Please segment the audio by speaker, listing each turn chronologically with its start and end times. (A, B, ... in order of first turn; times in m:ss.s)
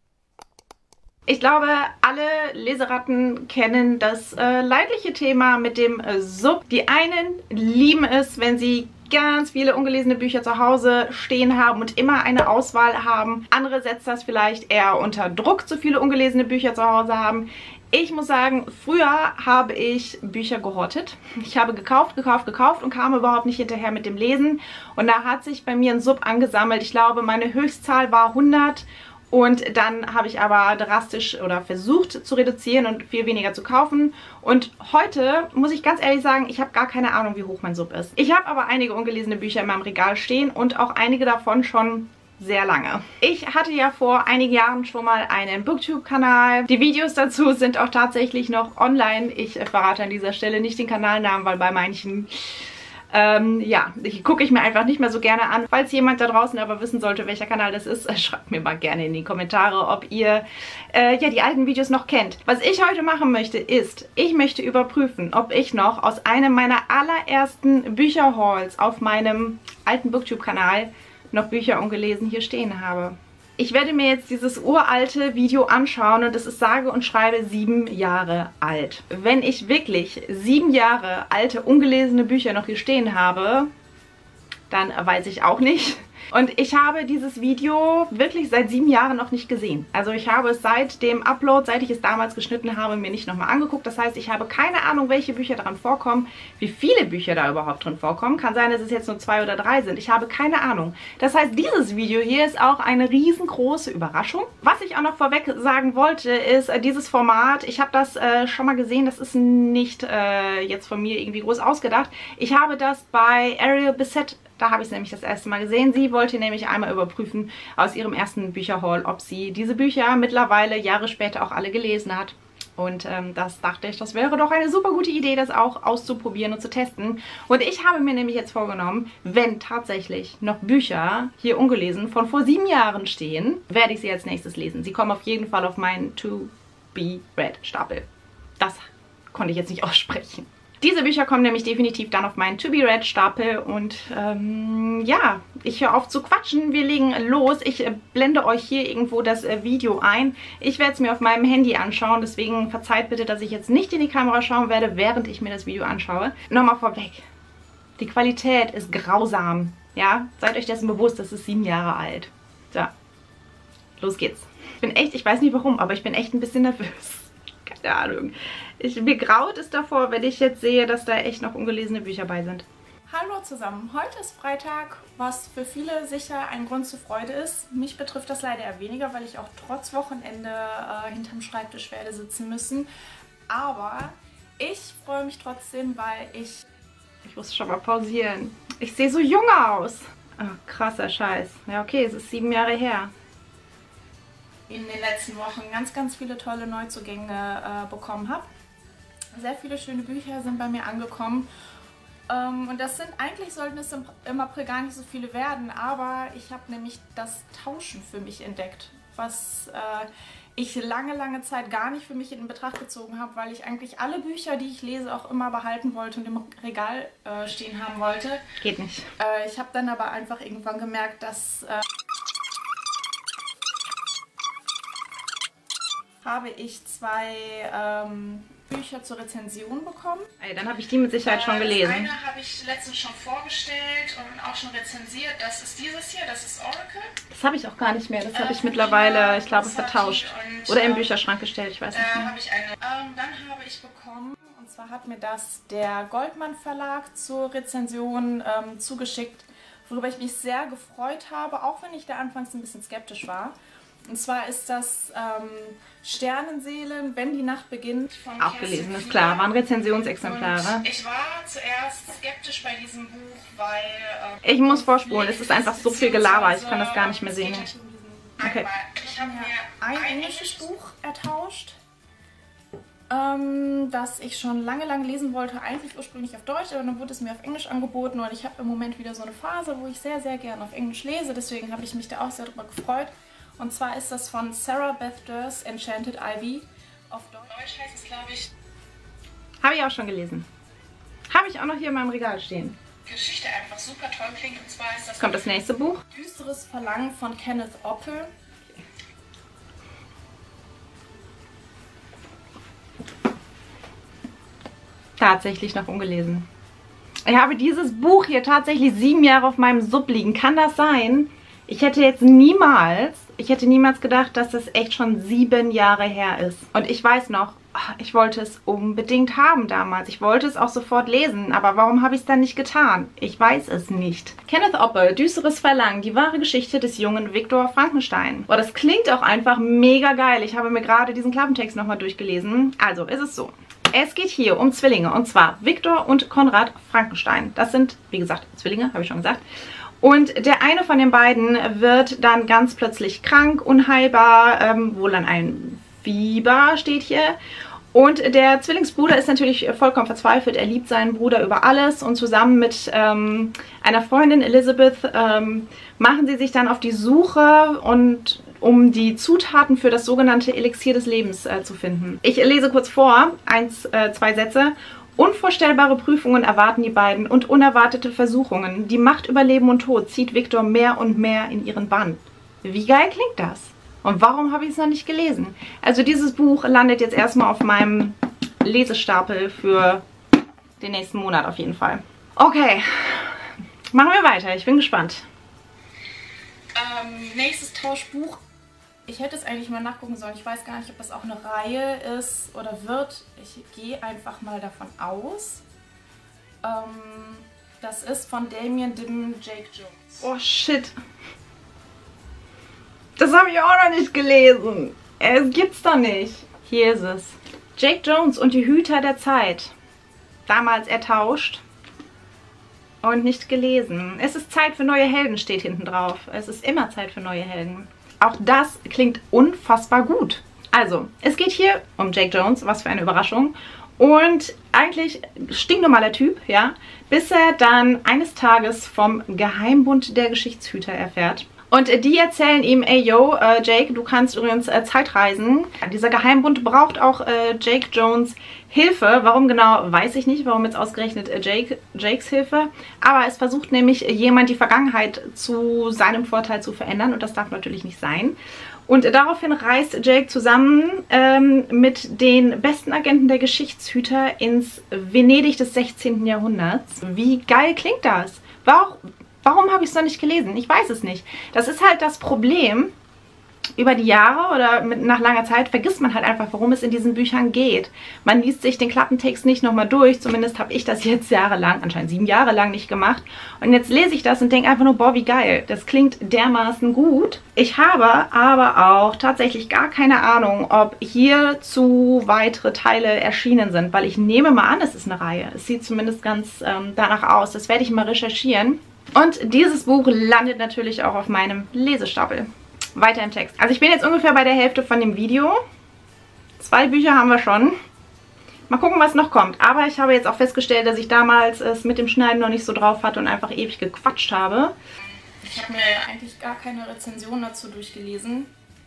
0:01.3-0:52.5 A
0:53.1-1:23.7 A
1:24.7-2:18.0 A
2:18.6-2:37.2 A
2:38.0-2:42.9 A
2:44.0-2:52.6 A
2:53.1-3:02.9 B
3:03.5-3:06.6 B
3:07.2-3:13.1 A
3:14.7-3:18.5 B
3:19.3-3:21.5 B
3:22.3-3:38.4 B
3:38.6-3:39.1 A
3:39.2-3:41.8 B
3:46.2-3:50.3 B
3:50.4-3:52.1 A
3:51.2-3:57.1 B
3:57.3-4:02.4 A
3:58.3-4:01.1 B
4:01.9-4:31.8 B
4:18.4-4:20.8 A
4:24.4-4:27.7 A
4:28.4-4:28.7 A
4:29.2-4:30.6 A
4:33.1-4:48.5 B
4:49.6-4:50.4 A
4:51.3-4:52.8 A
4:53.0-4:55.5 B
4:55.2-4:56.1 A
4:56.1-4:58.3 B
5:05.2-5:06.4 A
5:07.2-5:39.4 A
5:40.0-5:47.4 A
5:47.9-6:20.0 A
6:20.8-6:23.4 A
6:23.9-6:25.2 A
6:26.7-6:28.4 B
6:29.1-6:35.6 B
6:36.6-6:40.3 B
6:40.2-6:41.0 A
6:43.2-6:49.7 A
6:50.5-6:51.6 A
6:53.0-7:28.4 A
7:28.9-7:42.9 A
7:43.8-8:15.6 A
8:16.6-8:17.7 A
8:18.7-8:24.7 A
8:25.4-8:28.5 B